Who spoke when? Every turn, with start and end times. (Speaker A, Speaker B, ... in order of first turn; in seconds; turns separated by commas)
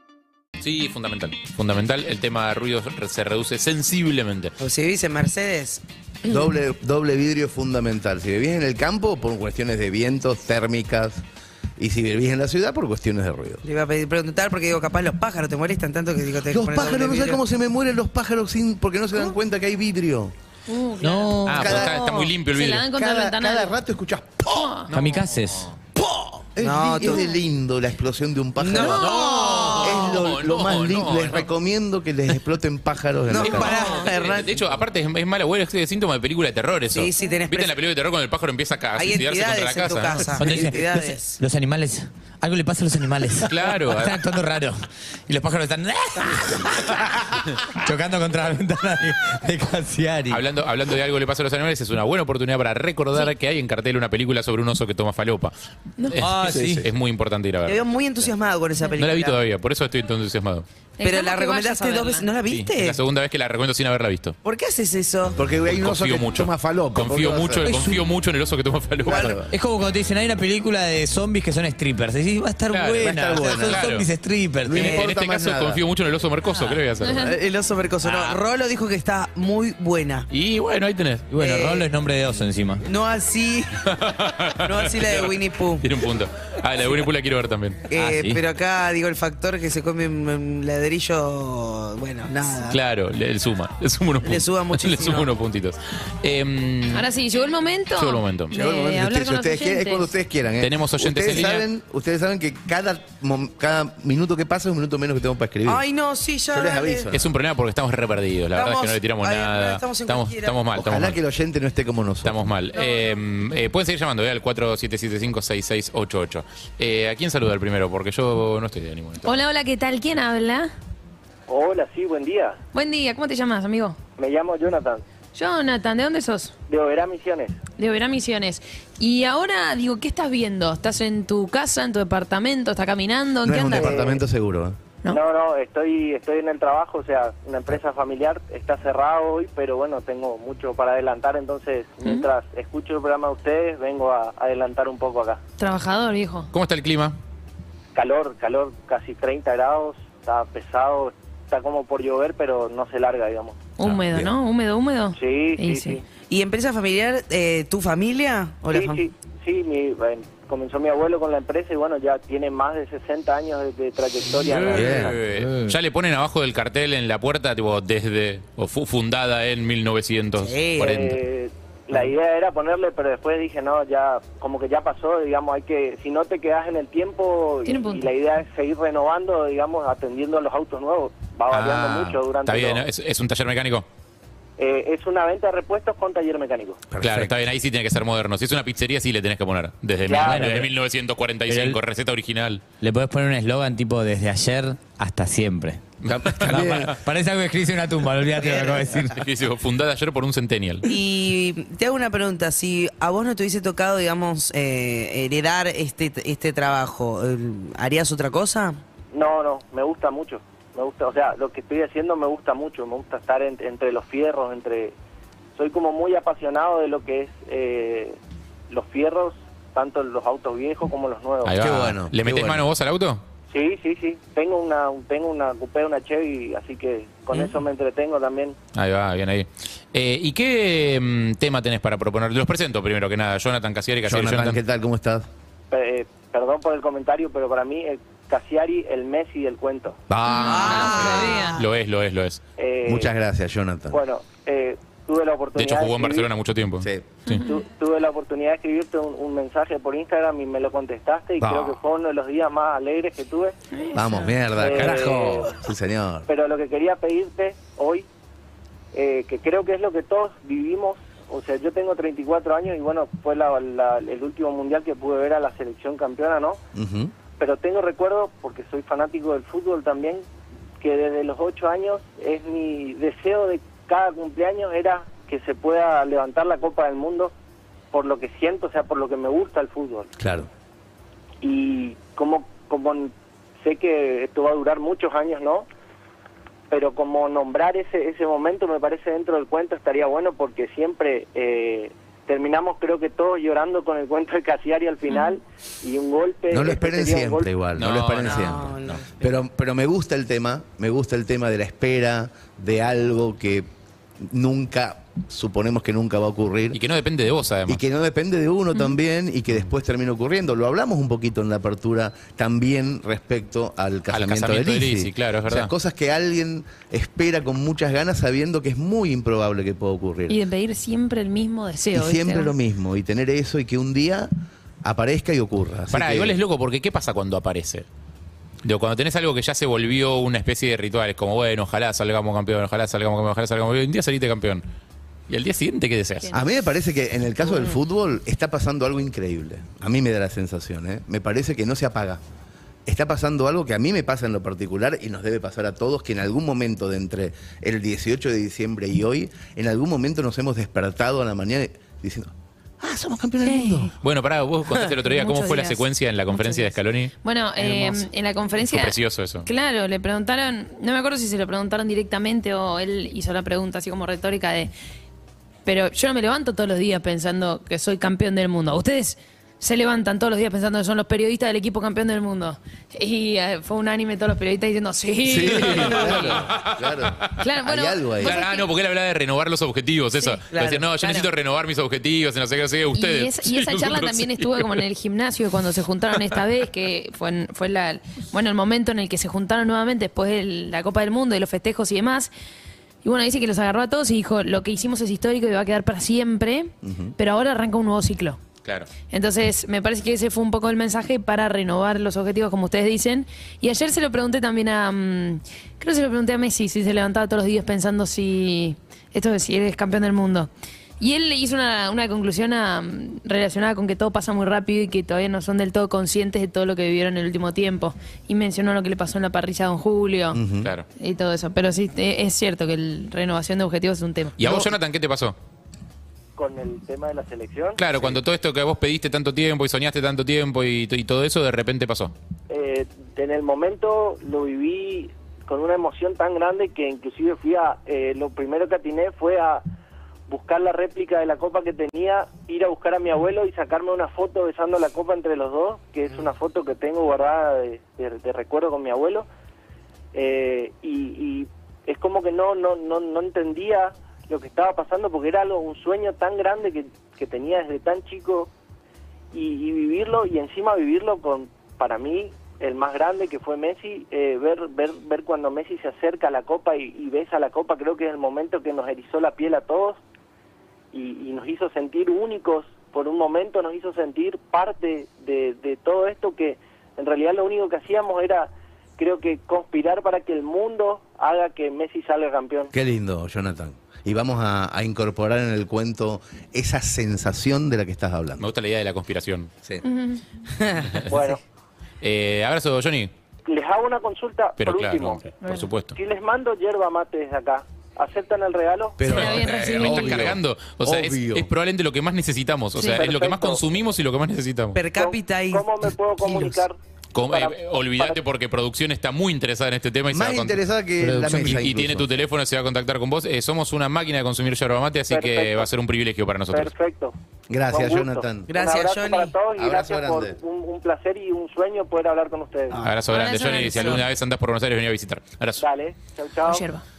Speaker A: 0.6-4.5, Speaker B: 4.6-6.5, Speaker C: 6.3-11.2, Speaker C: 11.8-13.6, Speaker B: 13.6-17.4, Speaker C: 16.5-20.3, Speaker D: 20.7-23.7, Speaker E: 21.0-21.8, Speaker A: 21.5-22.9, Speaker C: 21.6-22.0, Speaker C: 22.9-24.9, Speaker D: 24.4-24.9, Speaker E: 24.9-25.7, Speaker A: 24.9-25.6, Speaker B: 26.2-27.3, Speaker C: 26.6-33.8, Speaker B: 28.6-29.9, Speaker D: 28.8-29.8, Speaker A: 29.0-31.5, Speaker B: 33.3-34.5, Speaker A: 33.4-40.8, Speaker B: 36.9-37.8, Speaker B: 39.0-41.4, Speaker E: 40.2-50.4, Speaker A: 43.5-44.2, Speaker A: 50.3-58.3, Speaker E: 56.2-56.9, Speaker C: 56.5-56.9, Speaker B: 57.7-59.4, Speaker A: 59.0-60.7, Speaker D: 61.0-62.3, Speaker B: 61.0-63.0, Speaker A: 62.5-64.4, Speaker B: 64.4-65.4, Speaker C: 65.3-68.0, Speaker A: 65.7-69.4, Speaker E: 67.7-68.0, Speaker C: 69.1-69.5, Speaker E: 69.5-75.0, Speaker A: 72.7-74.1, Speaker C: 73.0-73.9, Speaker C: 74.6-75.8, Speaker A: 74.7-77.3, Speaker D: 77.0-77.3, Speaker B: 77.1-80.3, Speaker A: 78.0-78.4, Speaker A: 80.3-81.4, Speaker E: 81.3-82.8, Speaker B: 81.4-81.9, Speaker B: 82.8-83.9, Speaker A: 83.9-87.9, Speaker B: 84.6-85.9, Speaker B: 87.9-92.8, Speaker E: 87.9-88.4, Speaker A: 92.7-97.1, Speaker B: 94.2-95.3, Speaker D: 96.9-100.1, Speaker A: 98.0-98.5, Speaker C: 98.5-105.8, Speaker A: 100.6-101.7, Speaker B: 105.7-107.1, Speaker C: 106.5-107.3, Speaker A: 107.1-111.2, Speaker B: 108.5-110.6, Speaker C: 110.8-112.4, Speaker A: 112.2-119.4, Speaker D: 119.2-120.7, Speaker F: 121.5-122.6, Speaker D: 122.7-124.0, Speaker F: 124.2-125.0, Speaker D: 125.3-126.5, Speaker F: 126.7-127.6, Speaker D: 127.8-134.0, Speaker C: 133.4-134.8, Speaker F: 133.7-134.2, Speaker F: 135.1-145.4, Speaker D: 145.6-146.5, Speaker A: 146.5-147.2, Speaker F: 147.9-153.6, Speaker D: 153.8-156.0, Speaker A: 153.8-154.3, Speaker F: 155.2-156.0, Speaker B: 156.3-159.0, Speaker F: 158.7-165.1, Speaker A: 164.4-171.1, Speaker C: 164.7-165.2, Speaker B: 170.4-171.1, Speaker F: 170.8-182.9, Speaker D: 177.7-178.1, Speaker A: 181.5-183.9, Speaker F: 184.6-186.8, Speaker C: 186.9-187.3, Speaker A: 187.0-192.6, Speaker F: 190.1-190.4, Speaker E: 190.1-190.7, Speaker E: 191.5-191.8, Speaker E: 192.8-195.8, Speaker A: 196.0-196.9, Speaker C: 196.1-196.9, Speaker E: 196.5-199.3, Speaker A: 199.0-200.9, Speaker B: 200.9-208.8, Speaker F: 209.1-214.9, Speaker F: 215.6-218.2, Speaker F: 218.7-221.6, Speaker A: 221.4-223.2, Speaker C: 221.6-222.6, Speaker F: 223.5-228.6, Speaker A: 228.7-234.6, Speaker C: 234.1-235.3, Speaker F: 235.7-240.0, Speaker C: 240.1-241.4, Speaker D: 240.3-241.6, Speaker B: 240.4-241.7, Speaker A: 241.6-242.4, Speaker F: 242.6-243.1, Speaker C: 242.8-244.0, Speaker F: 243.9-246.3, Speaker A: 245.6-247.4, Speaker C: 246.8-247.1, Speaker D: 247.3-247.6, Speaker F: 247.4-253.6, Speaker C: 251.4-251.8, Speaker D: 253.7-254.3, Speaker C: 253.9-256.3, Speaker F: 254.6-255.6, Speaker F: 256.3-258.1, Speaker F: 258.9-266.6, Speaker C: 266.7-267.1, Speaker F: 267.4-270.2, Speaker F: 270.8-277.3, Speaker F: 277.9-280.1, Speaker C: 280.2-280.5, Speaker F: 281.4-285.7, Speaker F: 286.7-297.5, Speaker D: 295.1-295.4, Speaker C: 296.5-303.7, Speaker A: 297.8-299.0, Speaker B: 298.2-299.3, Speaker C: 304.2-306.8, Speaker A: 306.7-307.8, Speaker C: 307.7-320.4, Speaker A: 314.1-315.7, Speaker D: 320.3-322.5, Speaker C: 321.9-324.3, Speaker C: 324.8-326.4, Speaker A: 325.9-327.9, Speaker A: 328.6-334.6, Speaker A: 335.3-336.3, Speaker C: 336.3-342.2, Speaker C: 342.9-353.9, Speaker D: 353.4-353.9, Speaker A: 354.0-357.1, Speaker D: 354.9-364.7, Speaker A: 358.6-359.5, Speaker D: 365.7-376.4, Speaker C: 375.2-378.4, Speaker A: 375.6-377.3, Speaker D: 377.4-378.7, Speaker A: 378.2-384.8, Speaker B: 380.5-380.9, Speaker D: 381.0-381.3, Speaker D: 382.9-392.3, Speaker D: 393.0-398.4, Speaker C: 396.8-397.1, Speaker A: 398.6-398.9, Speaker D: 399.1-410.5, Speaker D: 411.0-420.4, Speaker C: 420.3-420.7, Speaker A: 420.6-420.9, Speaker D: 421.0-424.7, Speaker A: 424.4-425.4, Speaker F: 426.4-427.8, Speaker A: 427.8-432.1, Speaker F: 432.5-439.6, Speaker F: 440.3-449.3, Speaker F: 450.1-458.5, Speaker F: 459.3-470.0, Speaker F: 470.9-482.7, Speaker C: 482.7-488.5, Speaker A: 488.4-489.5, Speaker D: 489.8-490.2, Speaker B: 490.6-491.0, Speaker F: 491.1-491.4, Speaker A: 492.0-493.1, Speaker F: 493.4-495.3, Speaker A: 494.6-495.9, Speaker D: 495.4-495.7, Speaker F: 495.9-499.0, Speaker C: 499.0-501.5, Speaker A: 499.1-504.8, Speaker D: 499.1-500.2, Speaker D: 502.8-503.0, Speaker F: 502.8-503.6, Speaker B: 504.7-505.7, Speaker F: 504.9-508.2, Speaker B: 506.2-506.6, Speaker A: 507.1-516.7, Speaker C: 510.1-512.1, Speaker E: 511.1-511.5, Speaker F: 515.1-515.7, Speaker F: 516.5-517.1, Speaker C: 517.5-518.5, Speaker F: 517.7-522.8, Speaker B: 518.5-519.3, Speaker C: 519.5-520.4, Speaker A: 522.8-525.6, Speaker D: 523.1-524.0, Speaker B: 523.6-523.9, Speaker F: 525.6-526.7, Speaker D: 526.5-526.8